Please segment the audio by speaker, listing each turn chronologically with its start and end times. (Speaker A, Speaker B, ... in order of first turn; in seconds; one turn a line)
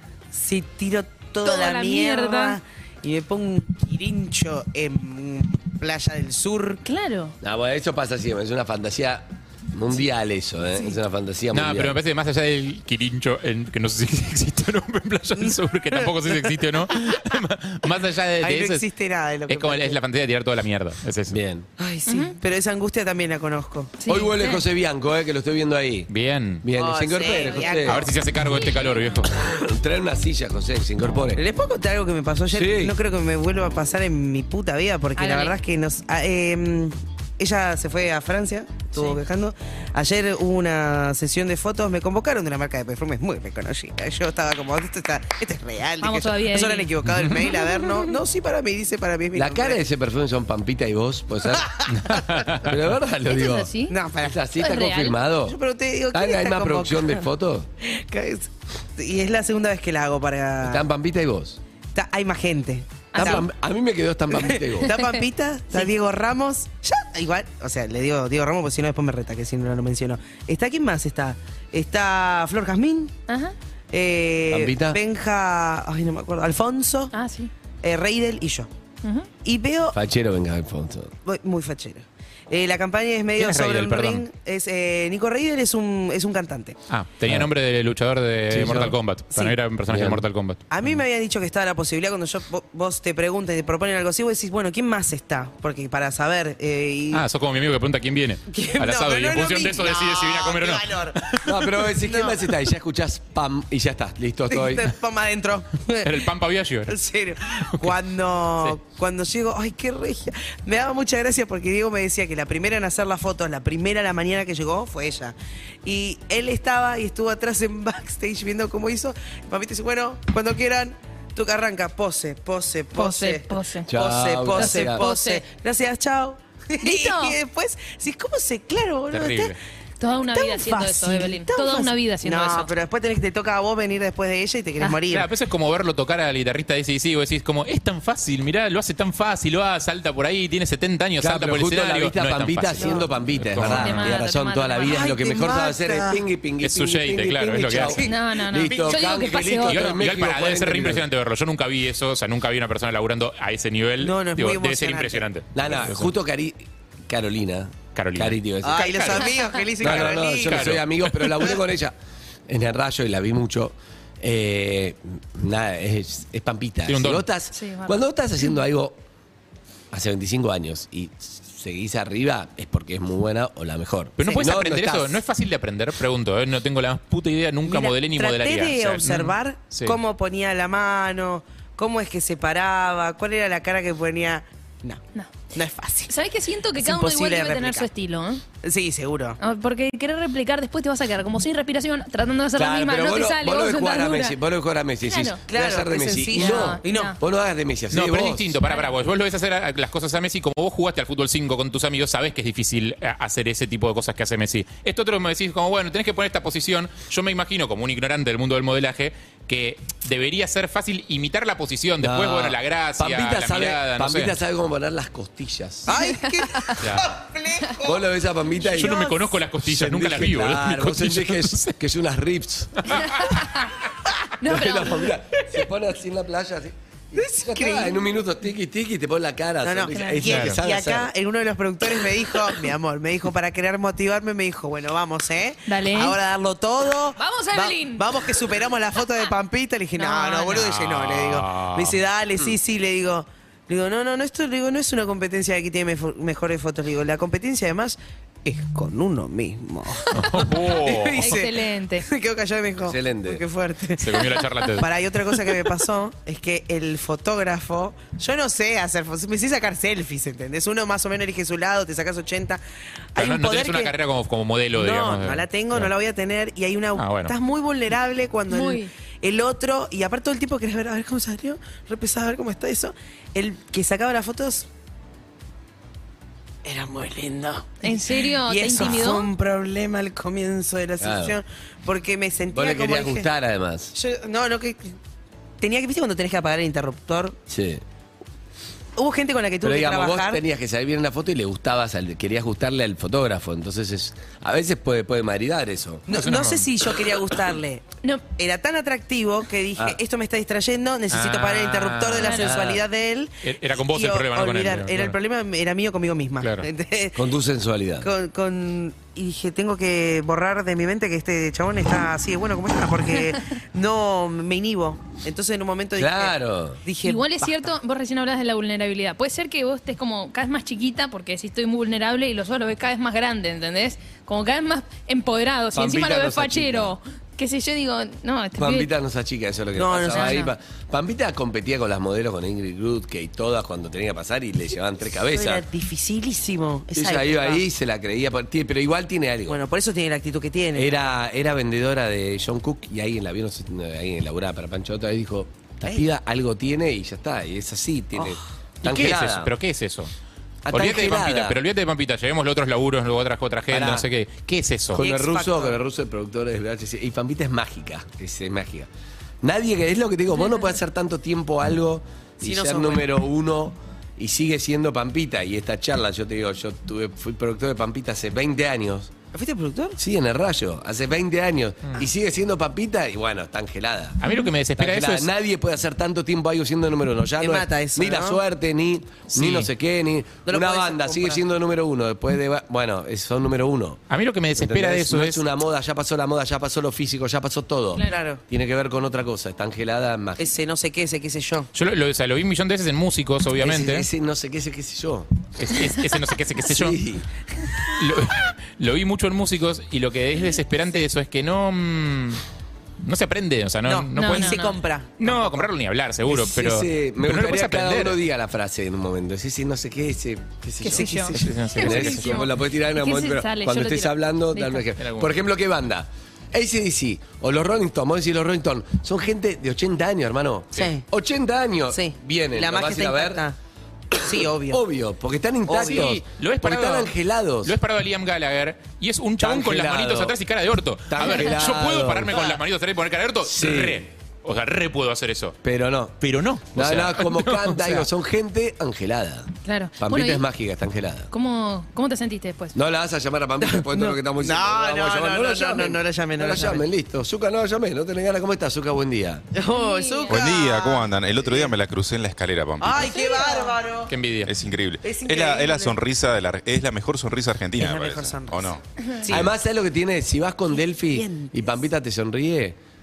Speaker A: 0.3-6.8
Speaker B: 1.4-2.6
Speaker B: 6.8-7.4
Speaker C: 7.4-12.0
Speaker D: 11.5-18.9
Speaker A: 15.4-16.1
Speaker A: 18.4-20.0
Speaker D: 19.5-21.4
Speaker C: 21.3-21.7
Speaker A: 21.8-23.9
Speaker B: 22.1-22.4
Speaker B: 24.0-24.6
Speaker C: 24.1-26.1
Speaker D: 26.1-26.6
Speaker C: 26.6-28.1
Speaker A: 26.8-28.1
Speaker B: 27.3-27.7
Speaker D: 27.9-29.3
Speaker B: 28.4-29.2
Speaker C: 29.2-31.4
Speaker A: 31.4-49.8
Speaker C: 32.5-33.0
Speaker B: 35.2-35.6
Speaker B: 46.0-46.9
Speaker B: 47.7-48.0
Speaker C: 49.3-51.7
Speaker A: 51.6-52.2
Speaker D: 51.9-52.7
Speaker C: 52.6-55.6
Speaker B: 53.3-54.0
Speaker A: 53.9-54.4
Speaker B: 54.6-55.2
Speaker A: 55.4-57.2
Speaker C: 56.1-57.7
Speaker A: 57.8-60.8
Speaker C: 60.6-61.6
Speaker A: 62.0-63.5
Speaker B: 63.1-63.5
Speaker C: 63.2-65.0
Speaker A: 64.3-73.2
Speaker B: 73.3-73.5
Speaker A: 73.9-77.1
Speaker C: 74.5-75.0
Speaker B: 77.1-77.5
Speaker A: 77.8-78.7
Speaker B: 79.0-79.3
Speaker A: 79.4-80.0
Speaker C: 79.9-81.1
Speaker A: 81.2-86.8
Speaker D: 83.4-84.2
Speaker D: 86.9-90.6
Speaker C: 88.5-89.0
Speaker C: 89.9-90.3
Speaker A: 90.7-97.2
Speaker D: 97.1-101.8
Speaker A: 98.5-101.3
Speaker C: 101.4-104.9
Speaker A: 102.0-102.4
Speaker A: 104.5-106.3
Speaker D: 106.0-107.0
Speaker A: 106.9-129.6
Speaker B: 123.0-123.9
Speaker C: 123.9-125.0
Speaker B: 124.5-125.4
Speaker B: 126.8-127.4
Speaker D: 129.1-129.6
Speaker B: 130.0-132.7
Speaker A: 130.3-135.3
Speaker D: 135.1-144.1
Speaker C: 141.2-151.1
Speaker B: 143.6-145.1
Speaker A: 144.9-146.2
Speaker D: 146.6-148.0
Speaker B: 148.0-149.8
Speaker D: 149.6-156.1
Speaker A: 154.0-155.2
Speaker C: 155.6-159.1
Speaker D: 157.9-161.5
Speaker A: 158.6-160.8
Speaker C: 159.8-162.0
Speaker C: 162.5-169.0
Speaker D: 166.9-167.3
Speaker B: 167.5-168.0
Speaker C: 169.9-175.2
Speaker D: 174.2-180.0
Speaker A: 177.7-185.0
Speaker A: 185.5-186.1
Speaker B: 186.1-188.4
Speaker A: 186.8-187.9
Speaker A: 188.6-189.4
Speaker B: 189.4-194.4
Speaker C: 192.6-198.6
Speaker B: 195.0-195.4
Speaker A: 195.5-197.2
Speaker B: 196.3-197.2
Speaker D: 197.9-214.3
Speaker C: 212.0-215.9
Speaker A: 215.9-218.1
Speaker B: 215.9-216.8
Speaker D: 216.8-217.1
Speaker C: 217.8-223.2
Speaker D: 218.7-221.8
Speaker D: 222.9-223.2
Speaker B: 223.0-223.7
Speaker B: 224.4-225.1
Speaker C: 224.4-231.1
Speaker A: 227.2-228.1
Speaker A: 229.6-262.6
Speaker B: 229.9-230.3
Speaker D: 230.3-230.6
Speaker B: 235.7-236.2
Speaker B: 237.2-238.3
Speaker B: 240.0-240.6
Speaker D: 240.4-242.0
Speaker D: 250.1-251.4
Speaker B: 251.2-252.1
Speaker C: 252.8-253.4
Speaker D: 254.0-254.9
Speaker A: 263.1-263.9
Speaker D: 263.2-265.9
Speaker A: 264.8-274.7
Speaker D: 267.0-267.4
Speaker B: 268.5-268.9
Speaker A: 276.6-283.3
Speaker B: 277.8-279.3
Speaker C: 281.0-281.4
Speaker C: 282.5-283.9
Speaker A: 283.9-285.0
Speaker A: 285.6-287.4
Speaker C: 287.5-287.8
Speaker A: 289.0-290.4
Speaker C: 289.6-296.1
Speaker A: 296.1-307.2
Speaker D: 296.1-296.7
Speaker D: 301.1-302.4
Speaker B: 302.2-302.5
Speaker C: 302.4-302.8
Speaker D: 303.4-305.2
Speaker D: 306.4-306.7
Speaker C: 307.2-308.1
Speaker A: 308.0-317.7
Speaker C: 316.0-316.8
Speaker B: 317.0-328.9
Speaker C: 325.7-326.9
Speaker C: 328.6-335.6
Speaker A: 329.8-330.5
Speaker B: 330.1-330.5
Speaker A: 335.3-337.6
Speaker C: 336.9-339.6
Speaker A: 339.5-340.9
Speaker C: 340.8-349.5
Speaker D: 348.8-350.1
Speaker C: 350.6-351.6
Speaker D: 350.7-355.0
Speaker C: 353.7-354.1
Speaker C: 354.9-358.9
Speaker A: 355.0-355.8
Speaker C: 359.4-369.1
Speaker B: 360.4-360.8
Speaker A: 362.4-363.1
Speaker A: 369.3-370.0
Speaker C: 370.0-374.2
Speaker D: 374.2-375.3
Speaker C: 374.8-384.0
Speaker A: 377.4-378.4
Speaker D: 379.3-379.7
Speaker A: 380.5-381.4
Speaker D: 384.1-385.4
Speaker C: 384.6-390.5
Speaker A: 388.0-388.4
Speaker A: 390.4-391.7
Speaker D: 391.8-394.1
Speaker C: 393.6-395.3
Speaker D: 395.6-397.0
Speaker C: 396.6-397.3
Speaker D: 397.8-402.4
Speaker D: 403.0-408.2
Speaker A: 403.9-405.7
Speaker B: 404.1-404.8
Speaker C: 406.3-423.4
Speaker B: 410.8-414.9
Speaker A: 410.9-411.4
Speaker D: 411.4-412.4
Speaker D: 415.0-415.4
Speaker A: 420.8-421.0
Speaker A: 421.9-423.6
Speaker C: 424.1-427.8
Speaker A: 424.2-424.8
Speaker A: 425.7-426.1
Speaker D: 425.8-427.1
Speaker D: 427.6-435.6
Speaker C: 429.4-430.4
Speaker C: 431.1-432.6
Speaker C: 433.4-434.1
Speaker C: 435.6-441.3
Speaker D: 436.2-438.1
Speaker B: 439.6-440.4
Speaker B: 441.3-442.8
Speaker C: 442.7-449.5
Speaker A: 443.6-446.8
Speaker A: 449.6-451.8
Speaker B: 449.7-450.4
Speaker E: 450.3-453.0
Speaker A: 452.8-454.1
Speaker B: 452.9-453.8
Speaker D: 454.1-454.5
Speaker E: 454.4-458.8
Speaker A: 455.0-456.0
Speaker A: 457.8-459.5
Speaker C: 459.3-462.8
Speaker A: 461.1-461.7